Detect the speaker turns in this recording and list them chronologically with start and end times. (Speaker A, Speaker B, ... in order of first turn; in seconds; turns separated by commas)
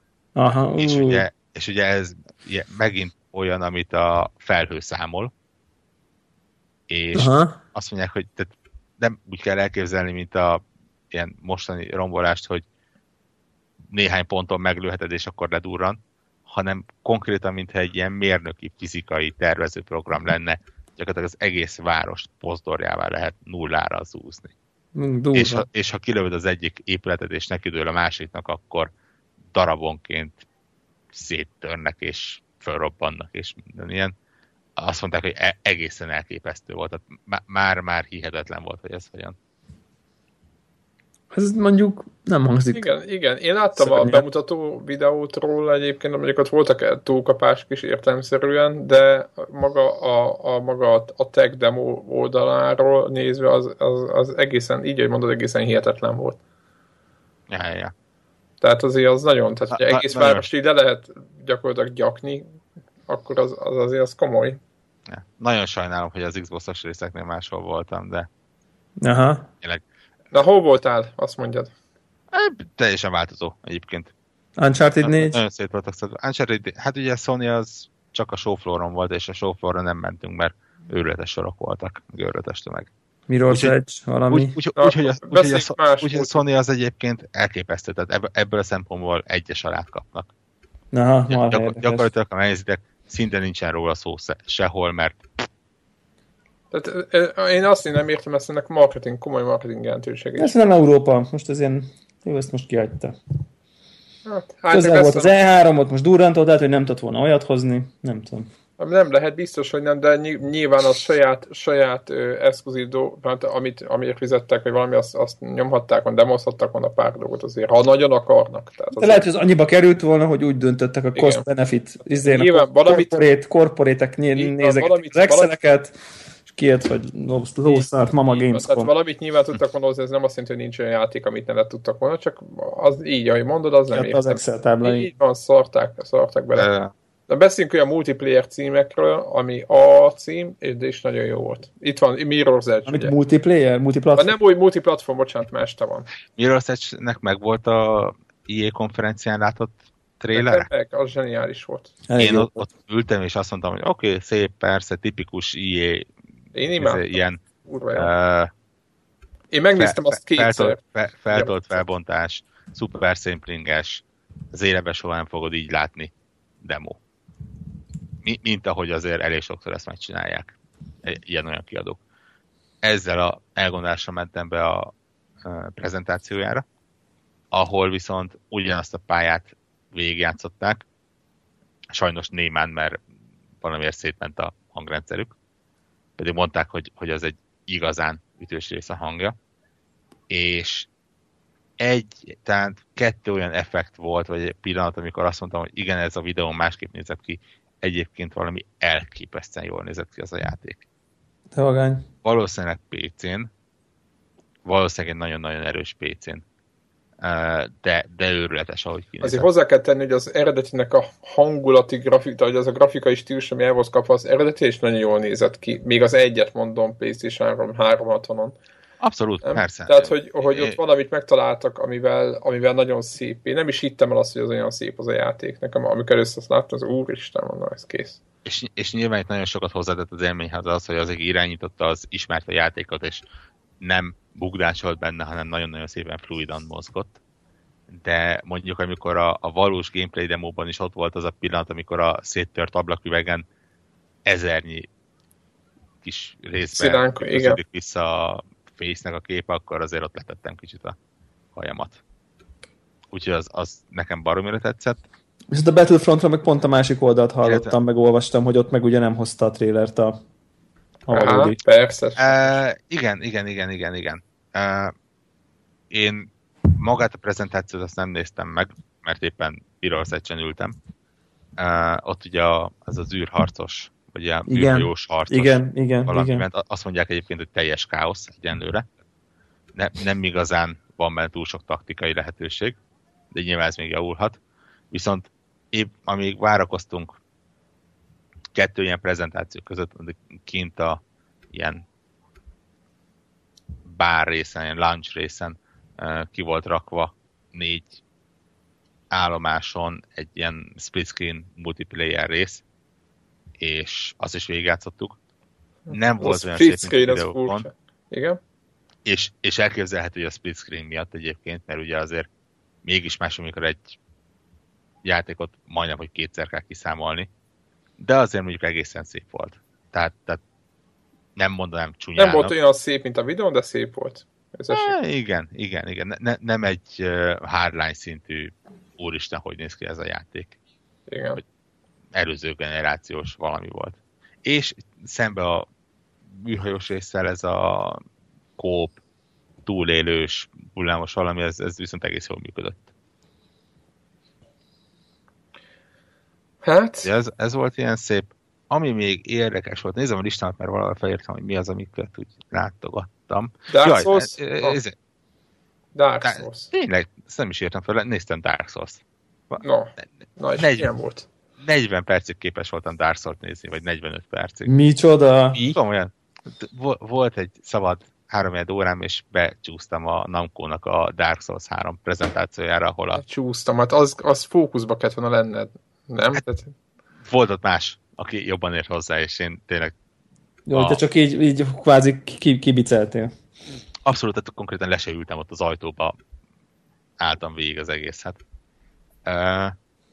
Speaker A: 0.4-1.2, Speaker B: 0.8-5.3, Speaker B: 6.9-12.6, Speaker A: 7.2-7.6, Speaker B: 13.9-24.5, Speaker A: 25.0-25.7, Speaker B: 25.3-28.9, Speaker B: 29.5-30.4, Speaker B: 31.1-34.1, Speaker B: 34.8-39.4, Speaker A: 41.3-42.9, Speaker C: 42.7-56.4, Speaker A: 43.8-44.2, Speaker B: 57.5-57.9, Speaker C: 58.6-62.4, Speaker B: 59.7-60.5, Speaker C: 63.1-64.6, Speaker B: 65.1-68.3, Speaker A: 69.0-69.5, Speaker C: 70.3-71.7, Speaker B: 72.3-74.1, Speaker A: 74.6-75.4, Speaker B: 75.0-82.9, Speaker A: 83.3-84.5, Speaker B: 83.5-83.7, Speaker B: 84.3-90.3, Speaker C: 84.8-86.4, Speaker A: 90.9-92.1, Speaker B: 91.3-95.2, Speaker C: 96.7-100.5, Speaker A: 100.4-103.2, Speaker C: 104.2-105.3, Speaker A: 104.7-108.5, Speaker C: 108.8-119.2, Speaker A: 119.0-126.0, Speaker C: 121.2-121.4, Speaker C: 122.2-123.2, Speaker C: 124.4-125.5, Speaker A: 126.5-128.9, Speaker C: 127.7-136.7, Speaker A: 133.9-135.1, Speaker B: 136.6-136.9, Speaker C: 137.3-143.1, Speaker A: 142.9-144.3, Speaker C: 144.2-146.1, Speaker B: 146.4-150.7, Speaker C: 150.3-151.9, Speaker A: 152.1-152.7, Speaker B: 152.2-156.1, Speaker C: 156.6-158.1, Speaker B: 156.8-157.4, Speaker B: 157.9-158.5, Speaker C: 159.5-160.8, Speaker B: 159.8-166.1, Speaker C: 161.3-161.8, Speaker B: 166.6-167.0, Speaker B: 168.2-170.5, Speaker B: 171.0-172.0, Speaker B: 172.8-174.9, Speaker B: 175.4-176.6, Speaker B: 177.5-180.8, Speaker B: 181.9-183.0, Speaker B: 183.6-185.3, Speaker B: 186.2-189.4, Speaker B: 190.3-190.9, Speaker B: 191.8-200.8, Speaker A: 201.5-202.1, Speaker B: 202.2-203.5, Speaker B: 204.7-206.4, Speaker B: 207.2-209.5, Speaker C: 209.2-218.5, Speaker B: 219.0-220.8, Speaker C: 219.4-228.2, Speaker B: 228.4-233.2, Speaker B: 233.8-237.2, Speaker B: 237.9-243.4, Speaker B: 244.3-244.9, Speaker B: 246.0-251.0, Speaker C: 246.8-247.6, Speaker B: 251.6-252.0, Speaker B: 253.1-255.0, Speaker A: 255.5-260.2, Speaker B: 257.4-257.7, Speaker A: 261.1-261.6, Speaker C: 261.1-262.6, Speaker B: 262.2-264.9, Speaker B: 265.9-270.8, Speaker B: 271.6-278.9, Speaker A: 274.5-276.5, Speaker B: 279.8-282.8, Speaker B: 283.3-284.4, Speaker B: 284.9-287.1, Speaker B: 288.5-291.0, Speaker B: 291.5-291.8, Speaker B: 293.9-298.0, Speaker B: 299.1-302.6, Speaker B: 303.6-305.2, Speaker C: 305.9-308.4, Speaker B: 305.9-307.7, Speaker B: 309.1-312.3, Speaker B: 312.9-314.0, Speaker B: 315.0-317.3, Speaker B: 318.0-320.4, Speaker B: 321.4-322.5, Speaker C: 322.2-324.9, Speaker B: 324.7-330.5, Speaker C: 331.1-331.4, Speaker B: 332.1-335.7, Speaker B: 336.3-338.0, Speaker B: 338.6-339.0, Speaker B: 339.6-342.8, Speaker C: 346.6-347.1, Speaker B: 347.0-354.9, Speaker C: 353.7-354.8, Speaker C: 355.9-356.7, Speaker B: 356.2-359.6, Speaker C: 359.6-361.3, Speaker B: 360.6-360.9, Speaker B: 361.6-364.7, Speaker A: 364.7-365.6, Speaker B: 365.7-373.2, Speaker C: 373.2-376.7, Speaker B: 377.3-379.9, Speaker A: 380.7-383.3, Speaker B: 380.7-381.0, Speaker B: 384.1-386.2, Speaker B: 387.2-388.4, Speaker B: 389.3-389.8